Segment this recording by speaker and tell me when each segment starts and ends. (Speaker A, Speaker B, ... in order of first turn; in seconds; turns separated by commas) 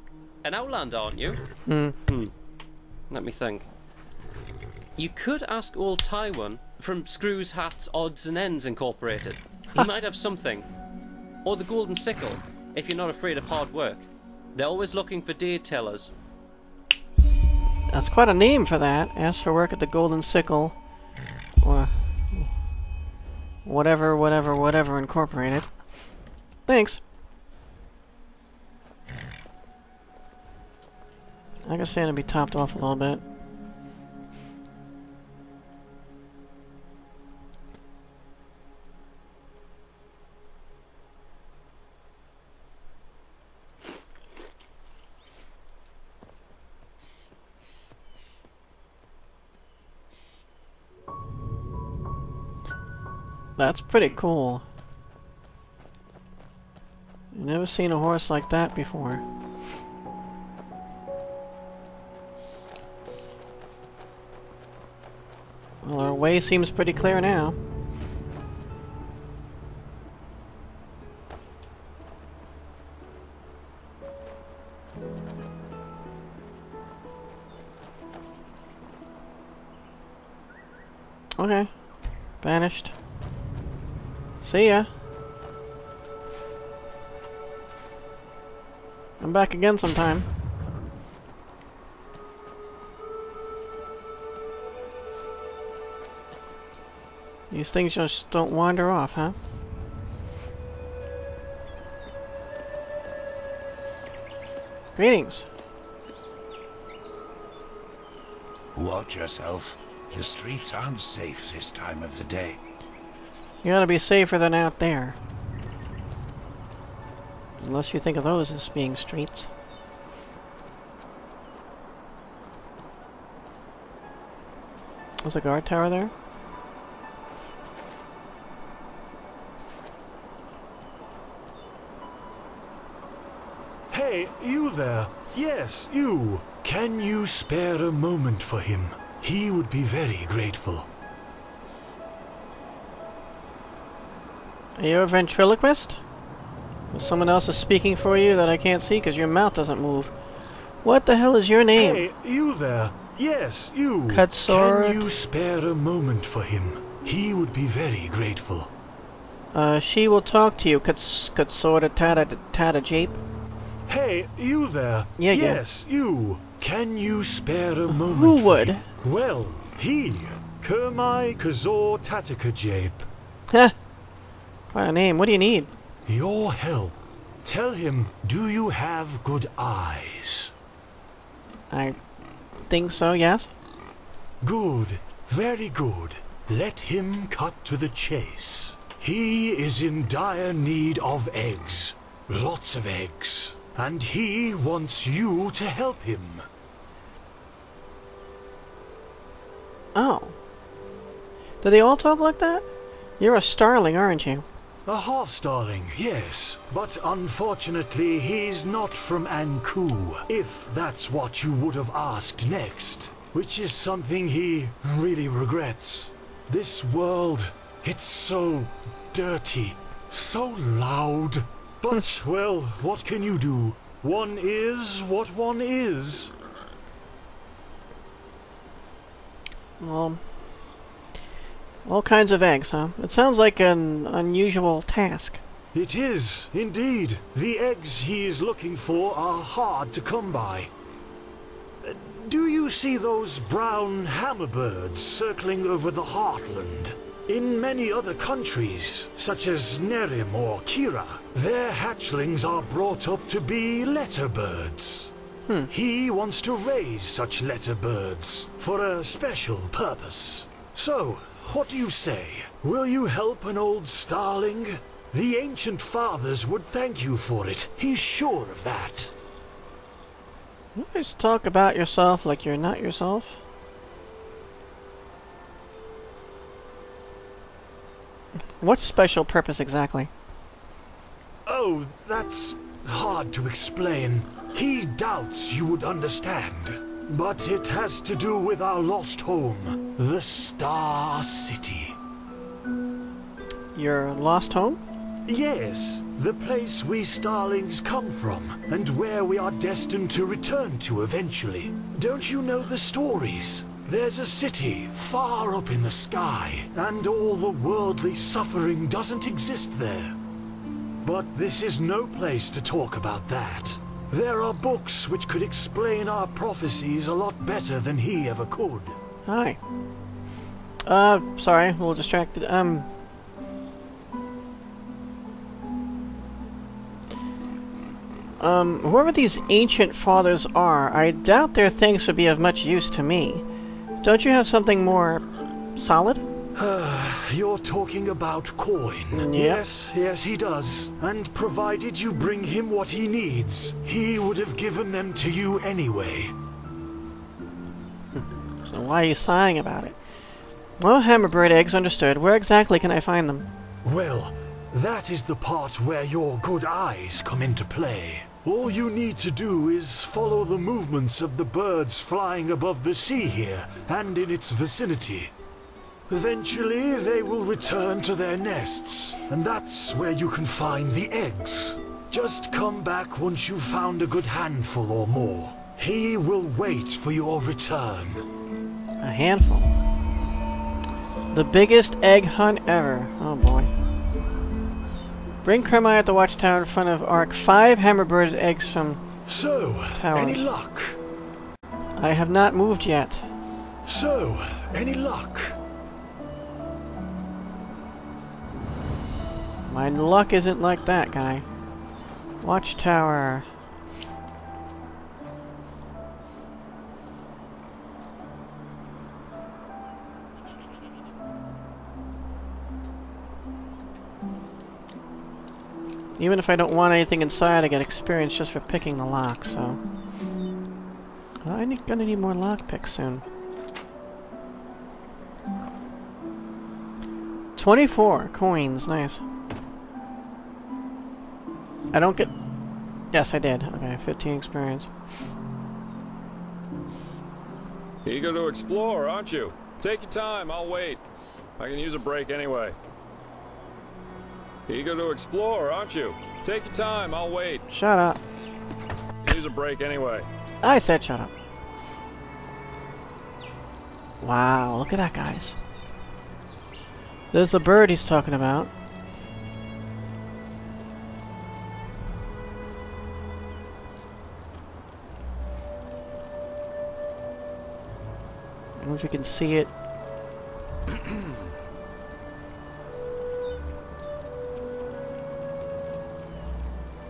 Speaker A: 0.4-1.4, Speaker B: 1.6-2.0, Speaker A: 2.1-2.3, Speaker A: 3.1-3.7, Speaker A: 5.0-10.7, Speaker A: 11.4-16.1, Speaker B: 17.9-20.8, Speaker B: 21.6-22.5, Speaker B: 23.6-26.1, Speaker B: 26.7-27.0, Speaker B: 31.6-33.2, Speaker B: 53.6-54.6, Speaker B: 57.3-59.2, Speaker B: 65.8-67.6, Speaker B: 81.4-81.7, Speaker B: 82.4-83.0, Speaker B: 84.4-84.9, Speaker B: 89.2-90.3, Speaker B: 97.5-99.4, Speaker B: 105.0-105.5, Speaker C: 108.8-112.6, Speaker B: 113.6-115.2, Speaker B: 117.6-119.5, Speaker B: 125.2-126.1, Speaker D: 133.9-140.9, Speaker B: 144.8-146.0, Speaker B: 146.9-150.1, Speaker B: 150.8-152.1, Speaker D: 151.8-158.7, Speaker B: 154.1-155.1, Speaker B: 159.5-163.2, Speaker D: 163.9-173.1, Speaker B: 165.2-165.6, Speaker B: 167.9-168.9, Speaker B: 173.5-173.8, Speaker B: 174.7-175.7, Speaker D: 176.1-180.5, Speaker B: 181.7-182.0, Speaker B: 182.7-183.5, Speaker D: 184.4-196.5, Speaker B: 199.9-200.4, Speaker B: 201.6-202.7, Speaker B: 203.2-204.5, Speaker D: 204.9-226.3, Speaker B: 229.8-230.2, Speaker B: 231.8-235.4, Speaker D: 235.7-240.7, Speaker D: 241.8-255.1, Speaker D: 255.7-269.1, Speaker B: 270.8-273.4, Speaker B: 278.6-280.1, Speaker D: 281.5-291.9, Speaker B: 293.7-294.8, Speaker D: 295.3-310.2, Speaker D: 311.0-319.0, Speaker B: 319.3-319.6, Speaker B: 320.8-322.9, Speaker B: 328.4-333.4, Speaker B: 334.0-336.3, Speaker D: 336.6-346.3, Speaker B: 339.1-339.6, Speaker B: 348.1-350.0, Speaker B: 350.8-353.5, Speaker D: 353.9-365.3, Speaker D: 366.1-378.3, Speaker B: 379.0-379.8, Speaker B: 381.3-383.7, Speaker B: 385.4-389.0, Speaker D: 389.3-391.0, Speaker B: 389.9-390.5, Speaker B: 392.0-393.3, Speaker D: 393.9-395.6, Speaker B: 399.7-401.5, Speaker B: 402.4-403.5, Speaker B: 416.2-419.8, Speaker B: 421.4-423.2, Speaker B: 427.6-429.2, Speaker B: 431.9-432.4, Speaker B: 433.1-434.9, Speaker E: 438.1-441.0, Speaker E: 441.6-442.8, Speaker E: 444.7-447.7, Speaker B: 447.7-448.2, Speaker E: 449.2-450.3, Speaker B: 450.6-451.3, Speaker B: 454.2-455.6, Speaker B: 457.3-458.7, Speaker B: 468.8-469.7